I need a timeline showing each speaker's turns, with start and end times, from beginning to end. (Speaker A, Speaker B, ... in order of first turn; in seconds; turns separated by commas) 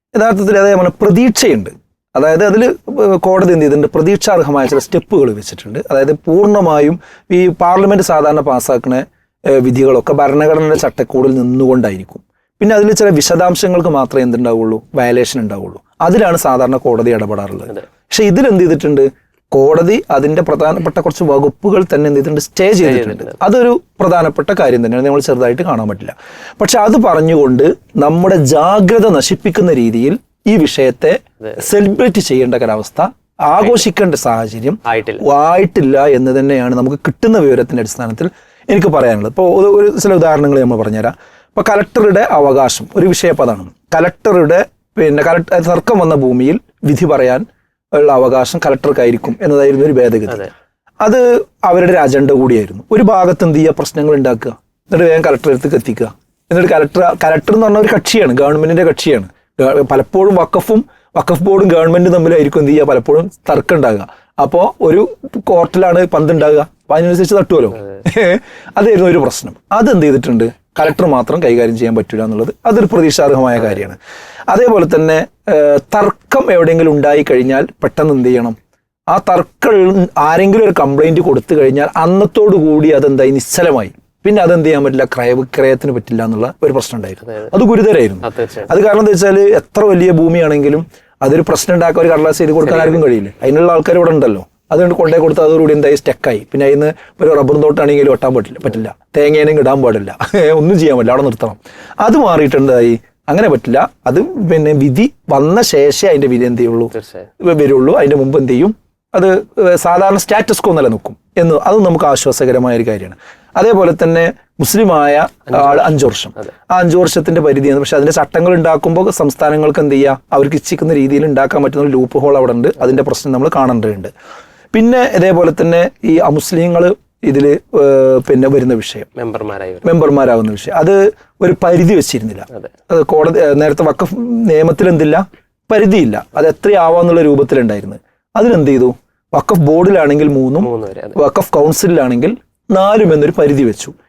Speaker A: 0.1-50.5, Speaker B: 22.8-23.4, Speaker B: 34.9-35.2, Speaker A: 51.0-74.0, Speaker A: 74.5-78.6, Speaker A: 79.1-124.1, Speaker B: 87.2-87.5, Speaker B: 88.2-88.7, Speaker B: 92.7-93.0, Speaker B: 106.9-107.3, Speaker B: 115.5-116.5, Speaker A: 124.7-129.1, Speaker B: 129.2-129.8, Speaker A: 129.8-143.9, Speaker B: 140.6-141.2